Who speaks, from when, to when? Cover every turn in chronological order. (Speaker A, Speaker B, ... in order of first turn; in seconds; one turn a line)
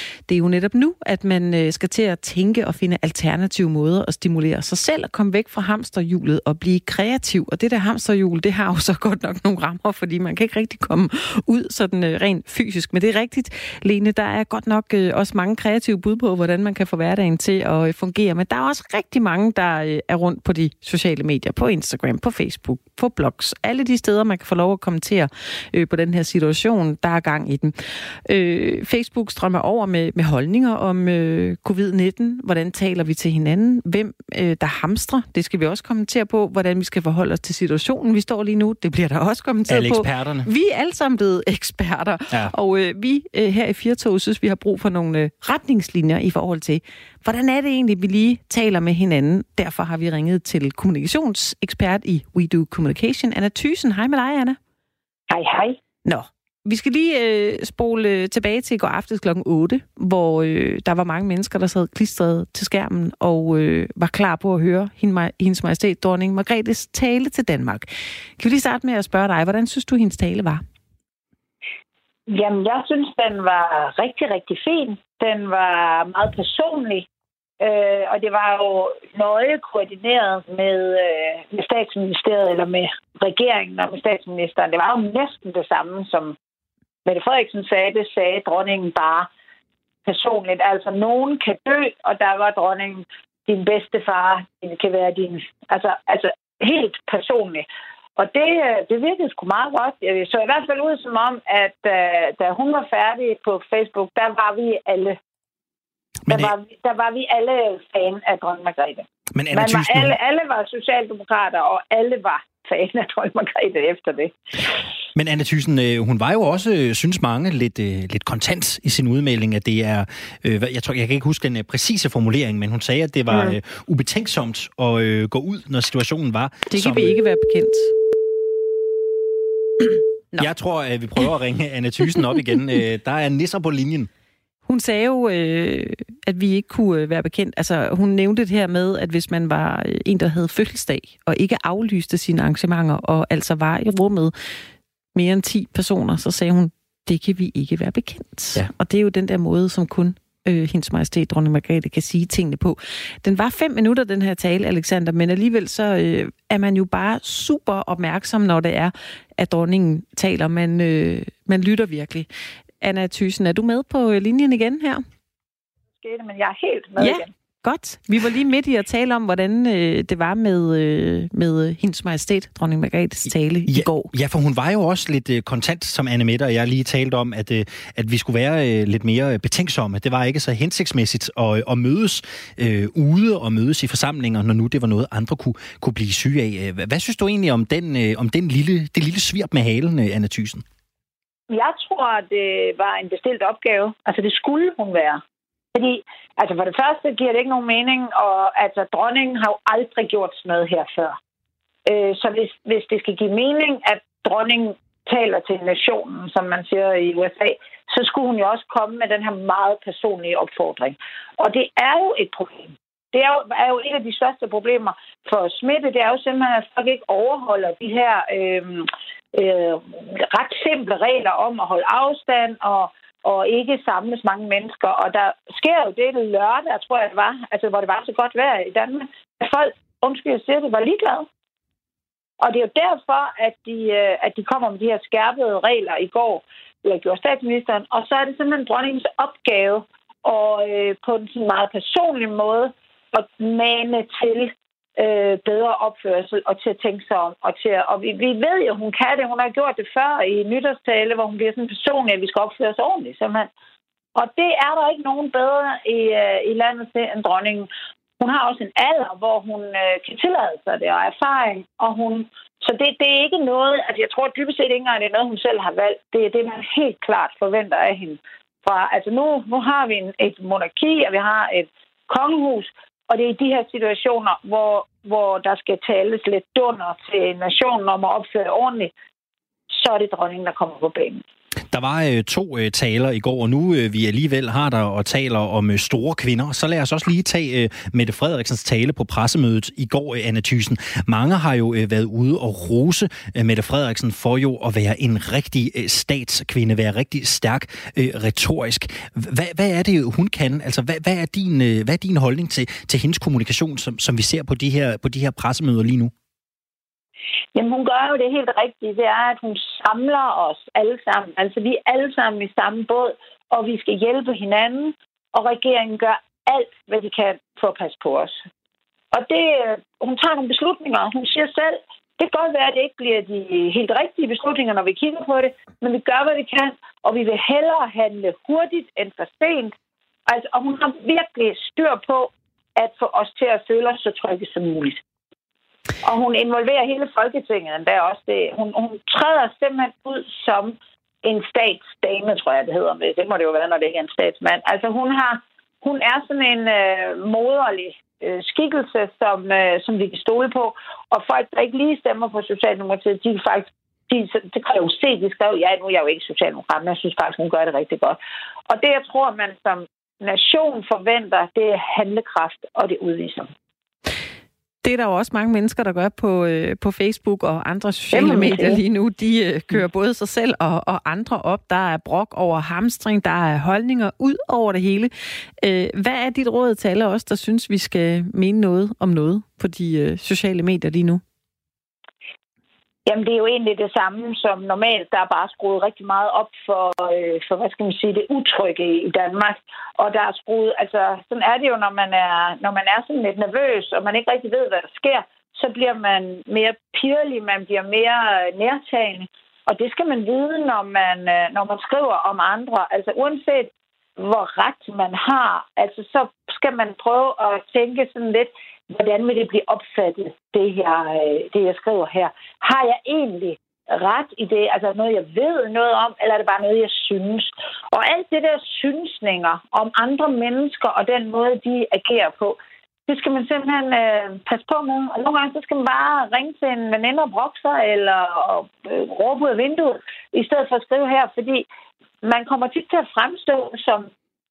Speaker A: 0.3-54.6
Speaker B: 39.7-40.5
Speaker C: 55.3-55.8
Speaker A: 56.0-67.9
Speaker A: 68.4-70.6
Speaker C: 72.3-77.1
Speaker C: 77.6-86.4
Speaker C: 87.0-89.3
Speaker C: 90.1-97.7
Speaker C: 98.2-105.2
Speaker B: 106.3-106.5
Speaker C: 106.3-114.4
Speaker B: 109.3-110.2
Speaker B: 115.2-127.2
Speaker A: 126.7-127.9
Speaker B: 130.4-134.1
Speaker A: 134.7-144.3
Speaker A: 145.2-162.3
Speaker A: 162.8-165.0
Speaker C: 166.0-167.3
Speaker A: 167.0-174.1
Speaker B: 173.7-190.6
Speaker C: 191.5-195.2
Speaker C: 195.8-201.2
Speaker C: 201.9-231.3
Speaker C: 232.4-253.5
Speaker C: 254.2-278.9
Speaker C: 279.7-281.2
Speaker B: 281.7-306.1
Speaker C: 307.6-318.4
Speaker C: 319.1-329.7
Speaker C: 330.3-335.0
Speaker C: 336.0-358.2
Speaker C: 358.7-363.5
Speaker A: 364.8-381.2
Speaker C: 368.1-368.8
Speaker C: 383.1-431.7
Speaker C: 432.2-434.1